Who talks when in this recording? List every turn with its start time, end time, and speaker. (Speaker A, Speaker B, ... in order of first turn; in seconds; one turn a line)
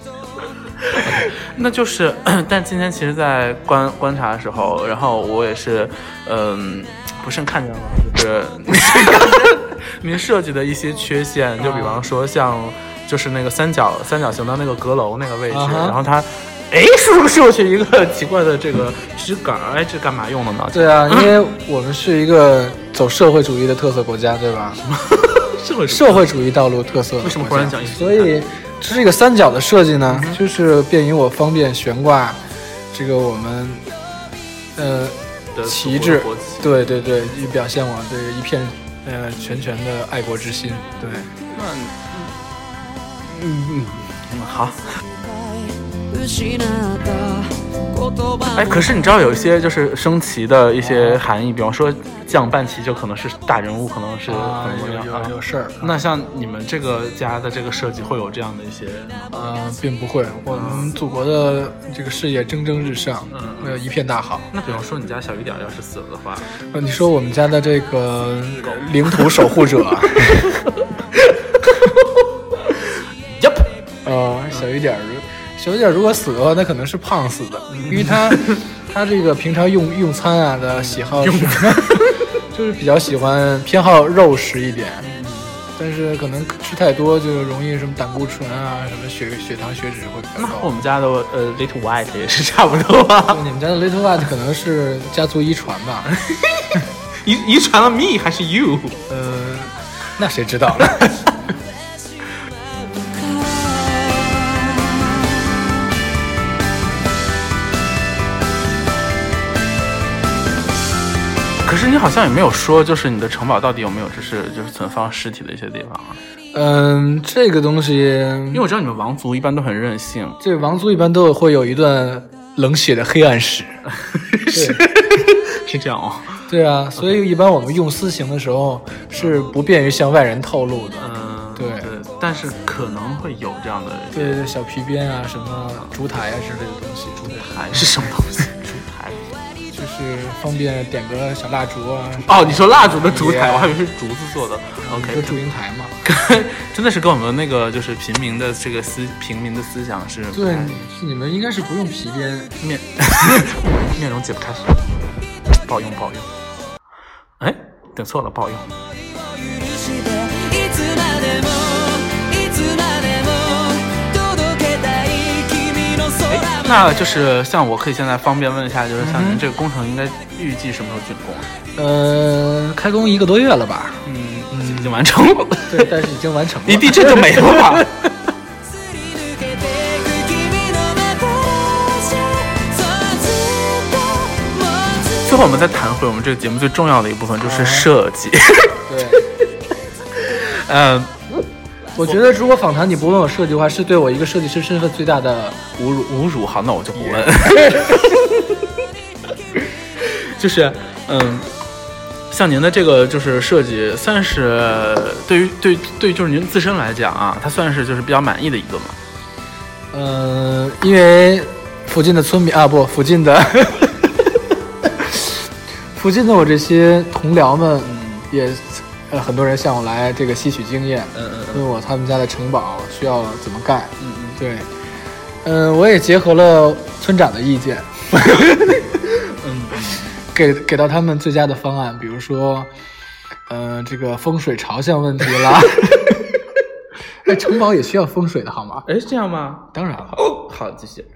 Speaker A: 0.9-21.4
Speaker B: 11.6-12.0
Speaker B: 15.5-16.0
Speaker B: 20.7-24.8
Speaker A: 24.8-26.3
Speaker B: 25.9-32.4
Speaker A: 27.2-28.3
Speaker A: 30.1-30.4
Speaker B: 32.9-33.8
Speaker B: 34.8-41.3
Speaker A: 35.5-36.7
Speaker A: 41.4-42.3
Speaker A: 43.3-44.9
Speaker C: 46.2-47.5
Speaker A: 48.4-59.6
Speaker B: 50.8-51.2
Speaker B: 54.3-56.0
Speaker B: 59.3-64.5
Speaker A: 60.5-60.9
Speaker A: 63.3-63.8
Speaker A: 64.5-66.5
Speaker B: 66.7-70.5
Speaker A: 70.6-73.7
Speaker B: 74.0-85.1
Speaker A: 77.7-78.6
Speaker A: 80.7-82.2
Speaker A: 85.0-85.6
Speaker B: 85.7-90.8
Speaker A: 90.3-93.4
Speaker B: 93.3-96.1
Speaker A: 96.1-99.0
Speaker B: 99.1-101.2
Speaker A: 111.6-116.2
Speaker B: 116.5-118.7
Speaker A: 118.5-120.4
Speaker B: 120.4-123.7
Speaker A: 123.9-126.4
Speaker B: 124.5-124.8
Speaker B: 126.5-131.9
Speaker A: 129.2-129.4
Speaker A: 131.0-134.4
Speaker B: 134.1-137.5
Speaker A: 137.3-139.3
Speaker B: 139.7-143.8
Speaker A: 142.2-145.4
Speaker B: 144.8-146.0
Speaker A: 146.0-150.9
Speaker B: 150.3-152.5
Speaker A: 152.6-154.9
Speaker A: 155.6-156.3
Speaker A: 157.4-158.8
Speaker C: 159.4-166.1
Speaker A: 166.2-171.5
Speaker B: 169.0-169.4
Speaker B: 171.8-175.0
Speaker A: 174.0-176.1
Speaker B: 175.7-177.9
Speaker A: 176.6-177.9
Speaker C: 179.2-185.0
Speaker A: 185.0-189.2
Speaker B: 187.4-187.9
Speaker B: 188.8-189.3
Speaker A: 190.1-191.4
Speaker B: 191.9-195.7
Speaker A: 195.8-198.7
Speaker B: 196.9-197.9
Speaker A: 200.0-201.5
Speaker A: 202.3-209.0
Speaker B: 209.9-214.1
Speaker B: 215.0-215.3
Speaker B: 215.9-224.7
Speaker A: 217.8-218.3
Speaker A: 221.1-221.7
Speaker A: 224.0-224.4
Speaker B: 225.4-228.9
Speaker A: 228.9-230.2
Speaker B: 230.3-232.7
Speaker B: 233.5-236.2
Speaker B: 237.2-238.9
Speaker A: 238.8-241.1
Speaker B: 239.7-240.2